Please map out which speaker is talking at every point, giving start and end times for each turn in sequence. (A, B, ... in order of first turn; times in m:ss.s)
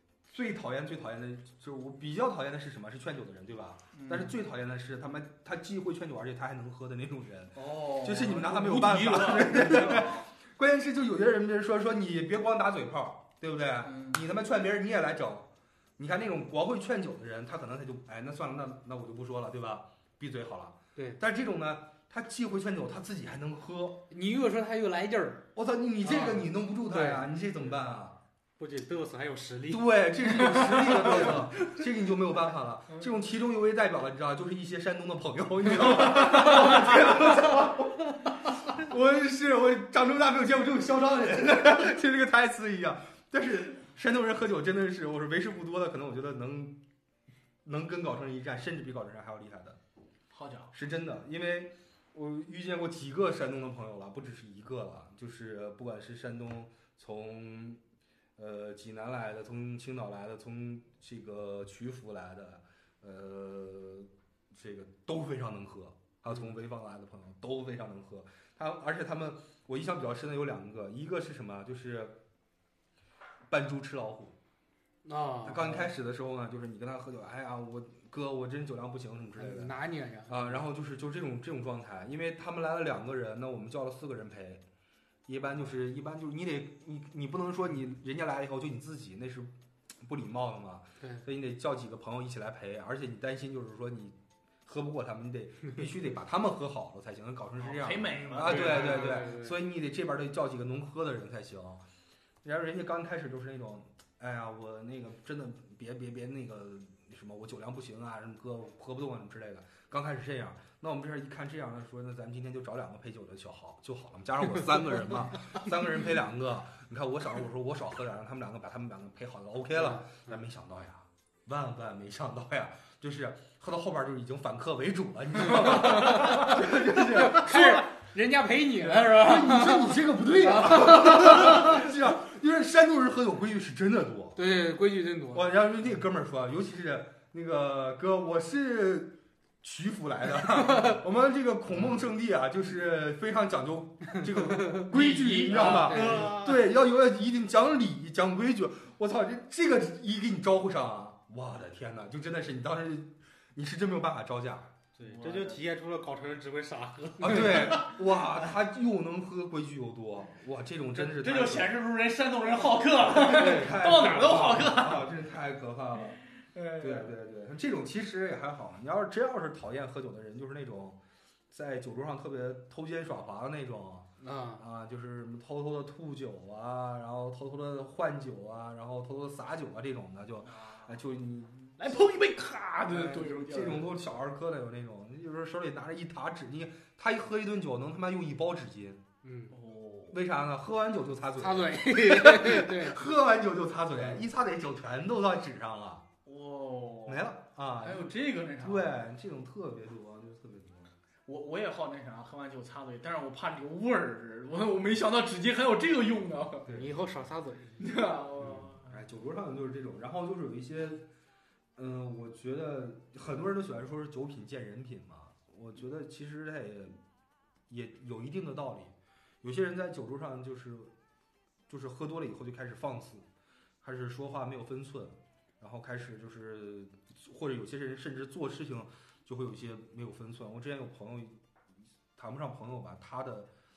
0:00.3-0:24.0 A
0:03.9-0:04.3 B
0:07.5-0:10.3 B
0:13.8-0:14.2 B
0:24.1-0:25.5 C
0:25.5-0:28.2 A
0:26.0-0:27.3 C
0:28.6-0:31.2 D
0:29.7-0:46.8 A
0:47.6-0:49.8 A
0:50.3-0:50.7 B
0:50.7-0:57.8 A
0:58.4-1:12.2 A
1:13.5-1:14.4 A
1:15.0-1:15.9 C
1:15.4-1:19.7 A
1:19.4-1:20.6 C
1:20.3-1:24.6 A
1:25.2-1:41.8 A
1:37.6-1:39.4 B
1:38.2-1:39.6 C
1:42.4-2:07.9 A
1:59.8-2:00.3 C
2:05.6-2:11.8 C
2:08.9-2:14.4 A
2:14.4-2:15.5 C
2:15.3-2:34.7 A
2:24.9-2:26.2 B
2:25.5-2:26.7 D
2:25.7-2:26.3 C
2:35.0-2:38.2 D
2:35.0-2:35.6 B
2:37.2-2:41.7 A
2:41.0-2:45.1 B
2:43.1-2:46.2 A
2:45.9-2:47.1 B
2:46.8-2:51.0 A
2:51.5-3:02.0 A
2:54.2-2:54.6 C
3:00.4-3:01.0 B
3:01.8-3:03.9 B
3:02.9-3:09.0 A
3:09.2-3:09.6 C
3:09.5-3:10.2 B
3:10.1-3:16.0 A
3:11.4-3:13.0 C
3:16.2-3:18.9 B
3:17.0-3:20.9 A
3:21.2-3:26.7 B
3:26.6-3:26.9 A
3:26.7-3:27.9 C
3:27.8-3:29.0 B
3:28.4-3:31.0 A
3:31.8-3:37.0 A
3:37.7-3:40.9 A
3:41.7-3:43.2 A
3:43.8-3:51.4 A
3:52.1-3:53.5 A